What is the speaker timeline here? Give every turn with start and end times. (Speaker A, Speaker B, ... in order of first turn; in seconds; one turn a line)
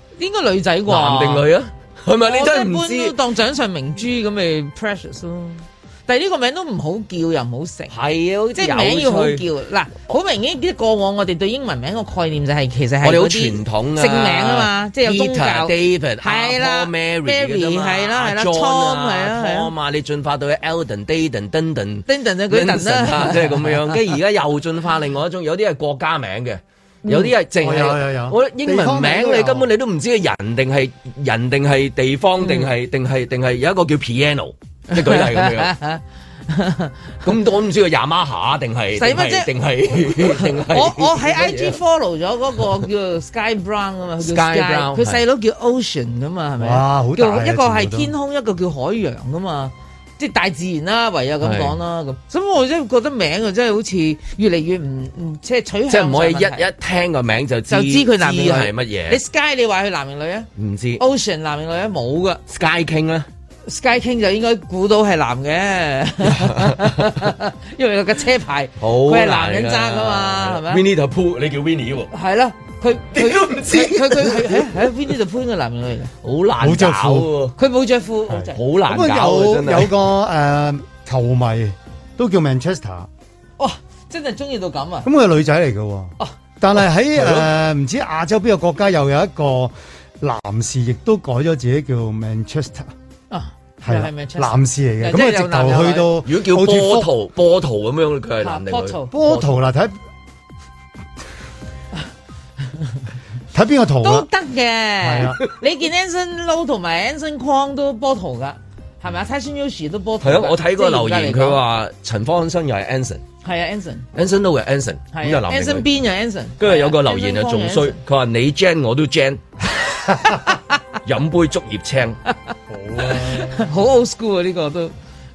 Speaker A: 0.2-1.5
Speaker B: 0.9-3.1
Speaker A: 2.2-7.9
Speaker B: 7.9-9.4
Speaker A: 8.6-19.7
Speaker B: 13.0-35.7
Speaker A: 22.1-23.9
Speaker C: 27.6-29.7
Speaker A: 32.4-32.7
Speaker A: 34.9-36.9
Speaker B: 37.2-41.8
Speaker A: 39.0-56.7
Speaker B: 44.2-45.2
Speaker C: 46.6-48.1
Speaker B: 51.4-51.8
Speaker B: 55.9-59.2
Speaker A: 57.7-60.5
Speaker B: 60.5-61.0
Speaker A: 61.0-62.4
Speaker B: 62.5-63.3
Speaker A: 63.6-70.8
Speaker B: 66.2-67.2
Speaker B: 68.8-72.1
Speaker A: 72.1-76.1
Speaker B: 73.1-74.9
Speaker B: 76.2-77.5
Speaker C: 76.6-77.3
Speaker A: 77.6-78.6
Speaker C: 78.3-83.1
Speaker B: 78.5-79.9
Speaker A: 83.6-85.1
Speaker C: 85.0-92.9
Speaker B: 87.2-87.5
Speaker A: 93.3-96.1
Speaker C: 93.8-97.1
Speaker B: 96.2-99.6
Speaker A: 98.4-99.1
Speaker C: 99.1-100.0
Speaker C: 103.5-104.3
Speaker A: 104.0-111.6
Speaker C: 105.0-105.4
Speaker B: 110.2-113.2
Speaker A: 113.4-114.0
Speaker B: 114.1-115.8
Speaker A: 115.1-118.0
Speaker B: 116.6-120.4
Speaker B: 121.0-122.2
Speaker C: 122.7-123.6
Speaker A: 123.3-124.9